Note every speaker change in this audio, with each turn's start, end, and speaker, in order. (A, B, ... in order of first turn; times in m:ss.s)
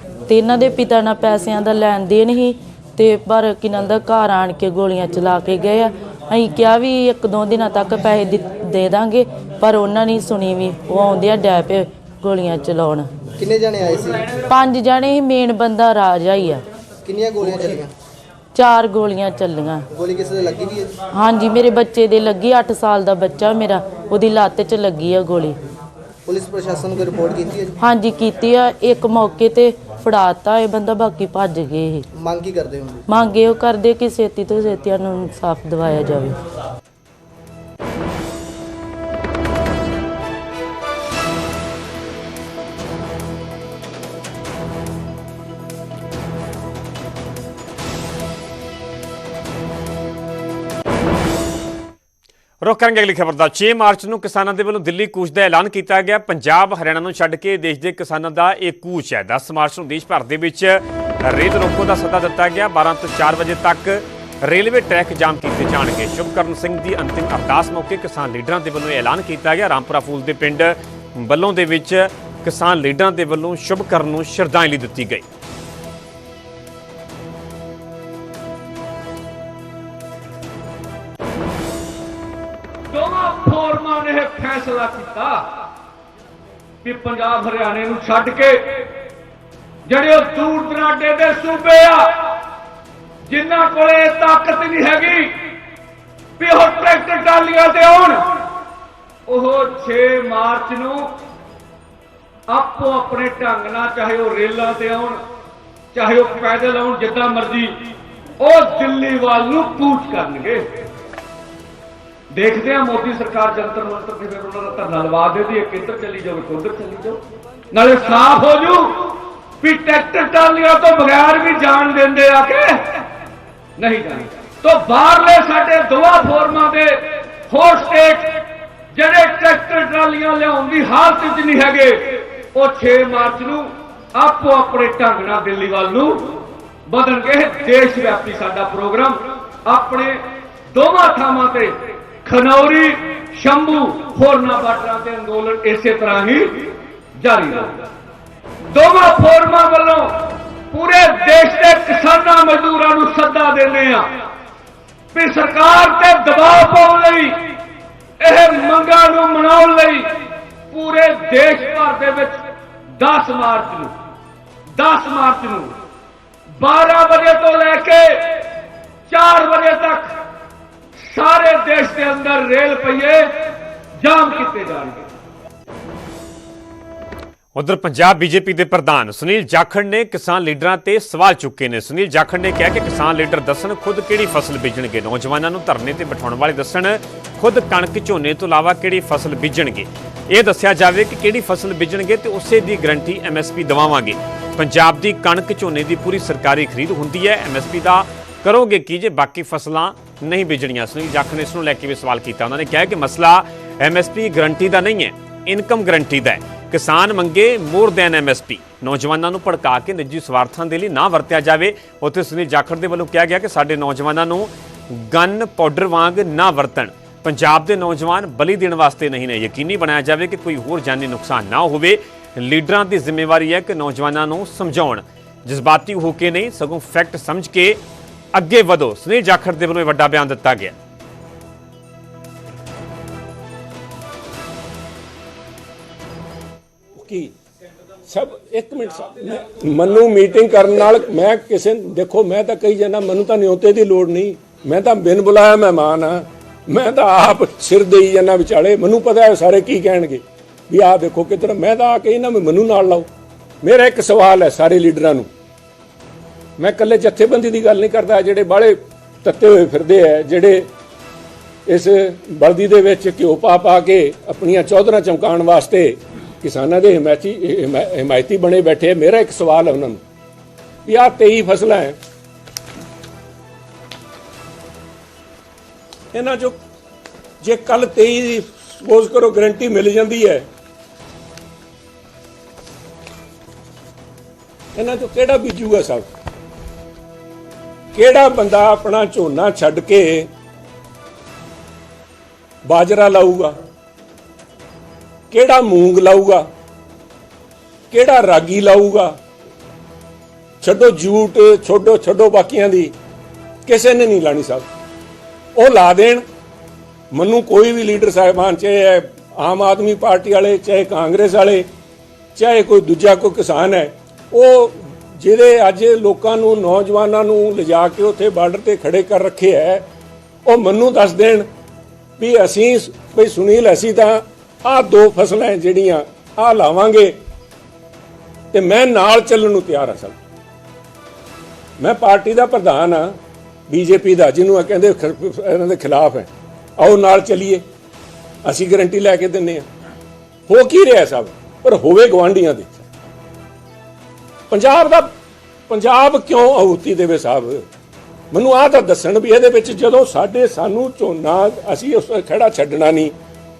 0:00.3-0:13.2 A
0:13.4-0:14.4 B
0:14.4-0:16.6 A
0:17.0-0:17.9 B
0:18.6-0:19.9 A
0:19.9-0:21.0 B
0:21.1-0:25.6 A
0:26.3-0:27.8 B
0:27.8-0:32.1 A
0:32.2-0:33.1 B
0:33.1-0:36.4 A
0:52.6-1:15.2 C
1:22.9-1:25.6 D
1:26.8-1:28.9 D
1:29.9-1:32.3 D
1:33.3-1:35.4 D
1:36.4-1:38.5 D
1:39.3-1:41.1 D
1:42.5-1:45.2 D
1:45.9-1:47.7 D
1:48.4-1:50.7 D
1:52.3-2:03.0 D
2:03.8-2:08.4 D
2:08.9-2:27.9 D
2:28.7-2:34.1 D
2:35.1-2:37.4 D
2:38.2-2:40.1 D
2:40.7-2:42.4 D
2:43.0-2:43.9 D
2:44.7-2:45.8 D
2:46.6-2:48.4 D
2:49.1-2:50.1 D
2:51.0-2:53.3 D
2:54.0-2:55.0 D
2:57.6-3:47.8 C
3:48.3-3:50.8 C
3:57.0-3:57.3 E
3:58.1-4:13.1 E
4:13.6-4:15.3 E
4:16.6-4:20.7 E
4:21.7-4:30.0 E
4:30.8-4:32.0 E
4:36.1-4:36.6 E
4:37.4-4:40.5 E
4:44.8-4:46.1 E
4:47.9-4:50.3 E
4:52.7-4:53.6 E
4:55.3-4:56.5 E
4:57.9-4:59.2 E
5:00.6-5:02.9 E
5:03.7-5:04.7 E
5:05.6-5:06.2 E
5:07.1-5:11.7 E
5:12.4-5:19.9 E
5:20.5-5:21.5 E
5:22.2-5:27.2 E
5:28.5-5:30.2 E
5:31.8-5:33.2 E
5:33.7-5:37.6 E
5:38.4-5:39.7 E
5:40.5-5:42.8 E
5:44.5-5:45.2 E
5:45.7-5:47.7 E
5:48.3-5:53.2 E